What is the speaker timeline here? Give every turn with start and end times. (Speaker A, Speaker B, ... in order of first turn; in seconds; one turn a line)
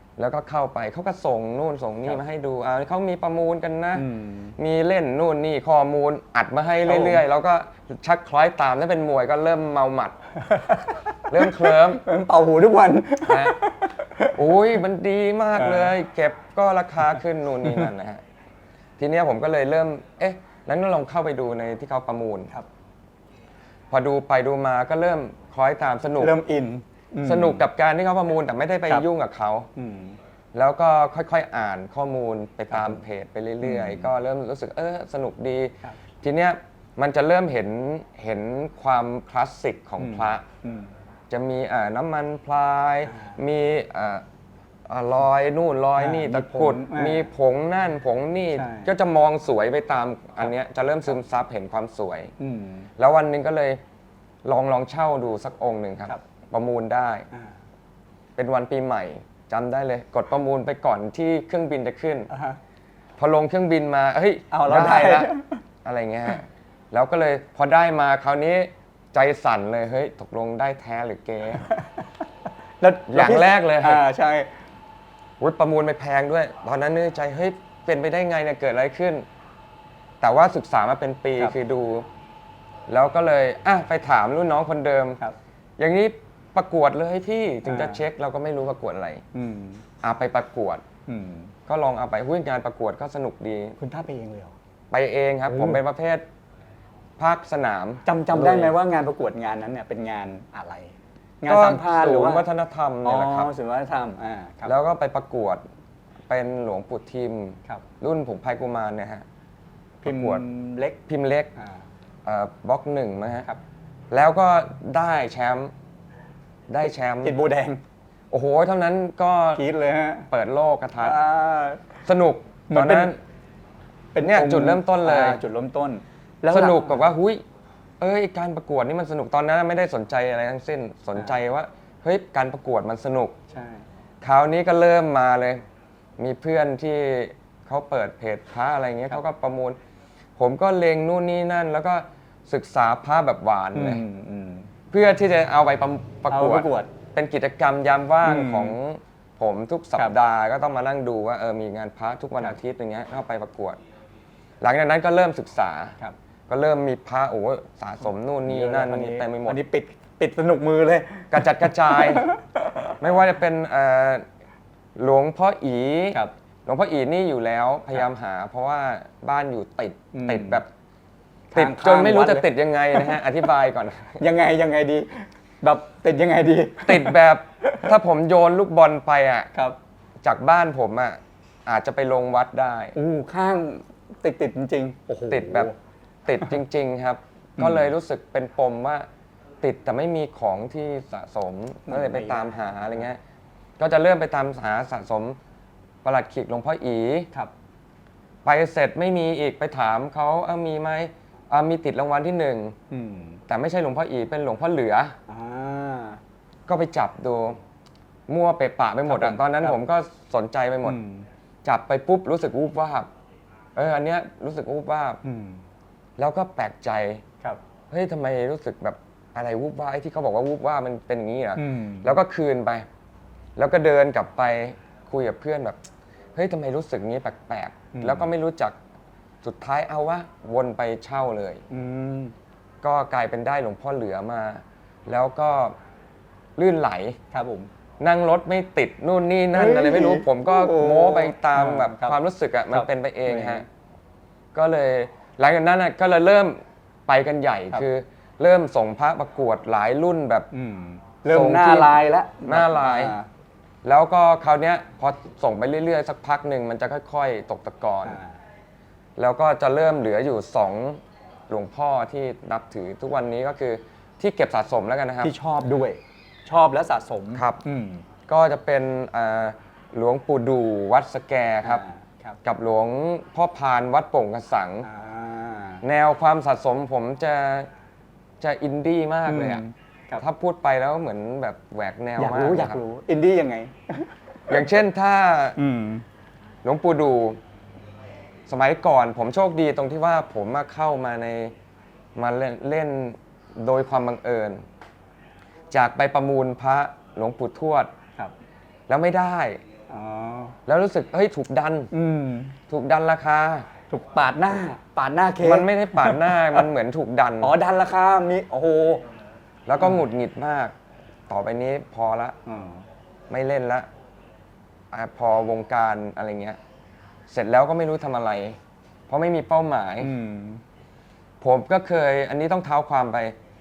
Speaker A: 0.2-10.2
Speaker B: 3.9-4.6
Speaker B: 6.8-7.2
Speaker B: 10.4-14.4
Speaker A: 11.3-12.0
Speaker A: 13.2-13.6
Speaker A: 14.3-18.2
Speaker B: 15.6-15.9
Speaker A: 19.0-22.5
Speaker A: 23.9-26.4
Speaker B: 26.2-27.6
Speaker A: 27.2-29.7
Speaker B: 29.8-30.2
Speaker A: 30.5-40.4
Speaker B: 32.7-33.0
Speaker B: 33.6-34.1
Speaker B: 40.0-40.9
Speaker A: 41.3-44.2
Speaker B: 43.1-43.4
Speaker A: 44.9-52.3
Speaker B: 46.0-47.3
Speaker B: 48.5-48.9
Speaker B: 52.4-52.9
Speaker A: 53.0-53.8
Speaker A: 54.4-57.3
Speaker A: 58.4-62.3
Speaker B: 62.3-62.6
Speaker A: 63.2-65.3
Speaker B: 64.5-65.6
Speaker A: 65.8-71.6
Speaker B: 71.6-72.2
Speaker B: 72.8-74.5
Speaker A: 73.1-74.0
Speaker A: 75.4-79.2
Speaker A: 80.2-82.1
Speaker A: 82.9-85.2
Speaker A: 85.8-89.2
Speaker B: 87.6-88.0
Speaker B: 89.3-89.8
Speaker A: 90.0-90.8
Speaker B: 91.1-91.5
Speaker A: 91.7-93.8
Speaker B: 93.8-94.5
Speaker A: 94.9-96.2
Speaker B: 95.5-95.8
Speaker A: 97.2-98.8
Speaker B: 98.0-102.5
Speaker A: 101.5-103.5
Speaker B: 103.0-104.7
Speaker A: 104.6-105.6
Speaker A: 106.3-109.2
Speaker B: 110.0-111.0
Speaker A: 110.0-110.4
Speaker A: 111.1-111.5
Speaker B: 111.6-111.8
Speaker A: 112.2-113.5
Speaker A: 114.1-115.7
Speaker A: 116.7-117.4
Speaker B: 117.2-117.8
Speaker A: 118.3-119.6
Speaker B: 119.5-120.3
Speaker A: 120.3-121.2
Speaker B: 121.0-121.9
Speaker A: 122.0-123.2
Speaker B: 122.7-123.1
Speaker B: 124.1-127.1
Speaker A: 124.2-125.4
Speaker A: 126.5-127.4
Speaker A: 128.0-133.3
Speaker B: 133.5-133.8
Speaker A: 134.2-135.6
Speaker A: 136.2-139.8
Speaker A: 140.4-144.0
Speaker B: 143.8-144.7
Speaker A: 144.9-153.8
Speaker B: 146.3-146.9
Speaker B: 148.2-148.8
Speaker A: 154.6-156.0
Speaker A: 156.5-159.6
Speaker B: 158.4-162.9
Speaker A: 161.3-162.3
Speaker A: 163.0-164.2
Speaker A: 165.0-170.7
Speaker B: 170.1-170.6
Speaker B: 171.5-173.2
Speaker A: 171.5-174.2
Speaker B: 174.2-177.9
Speaker A: 176.8-179.5
Speaker A: 180.2-182.9
Speaker B: 182.9-185.8
Speaker A: 185.3-185.7
Speaker A: 186.2-189.1
Speaker B: 187.6-187.9
Speaker A: 189.6-193.2
Speaker B: 191.9-192.6
Speaker A: 193.8-195.4
Speaker A: 196.0-197.3
Speaker A: 198.4-202.8
Speaker B: 202.9-203.4
Speaker A: 203.5-205.2
Speaker B: 205.3-206.2
Speaker A: 206.7-207.6
Speaker A: 208.3-211.0
Speaker B: 209.1-209.8
Speaker B: 210.8-211.2
Speaker A: 211.6-213.1
Speaker A: 213.8-215.2
Speaker B: 215.2-215.6
Speaker A: 216.2-217.2
Speaker A: 217.9-222.9
Speaker B: 221.6-222.1
Speaker A: 223.6-225.8
Speaker A: 226.3-228.8
Speaker B: 227.9-228.3
Speaker A: 229.4-231.6
Speaker B: 231.7-232.3
Speaker A: 232.8-235.8
Speaker A: 236.6-237.2
Speaker B: 237.3-237.7
Speaker A: 238.0-243.7
Speaker B: 239.5-242.2
Speaker B: 242.7-243.6
Speaker A: 244.5-250.5
Speaker B: 250.5-253.3
Speaker A: 251.3-253.2
Speaker A: 253.8-258.2
Speaker B: 258.0-258.4
Speaker A: 259.2-265.3
Speaker B: 265.2-268.0
Speaker A: 267.4-267.6
Speaker A: 268.3-271.8
Speaker B: 271.6-272.4
Speaker A: 272.4-274.9
Speaker B: 274.8-275.8
Speaker A: 275.8-277.7
Speaker A: 278.4-279.6
Speaker B: 279.2-280.2
Speaker A: 280.2-282.8
Speaker B: 282.2-284.6
Speaker A: 284.5-285.6
Speaker B: 285.6-286.0
Speaker A: 286.6-287.4
Speaker A: 288.5-291.5
Speaker A: 292.1-294.6
Speaker A: 295.7-297.9
Speaker A: 298.9-299.6
Speaker B: 299.9-300.6
Speaker A: 300.6-301.9
Speaker B: 301.9-302.6
Speaker A: 302.7-303.6
Speaker B: 303.9-306.6
Speaker A: 305.4-307.5
Speaker B: 307.4-309.0
Speaker A: 309.6-310.7
Speaker A: 311.3-312.4
Speaker B: 312.5-312.8
Speaker A: 313.3-313.9
Speaker A: 314.9-316.6
Speaker A: 317.3-318.6
Speaker A: 319.1-320.1
Speaker B: 320.0-320.6
Speaker A: 321.4-323.4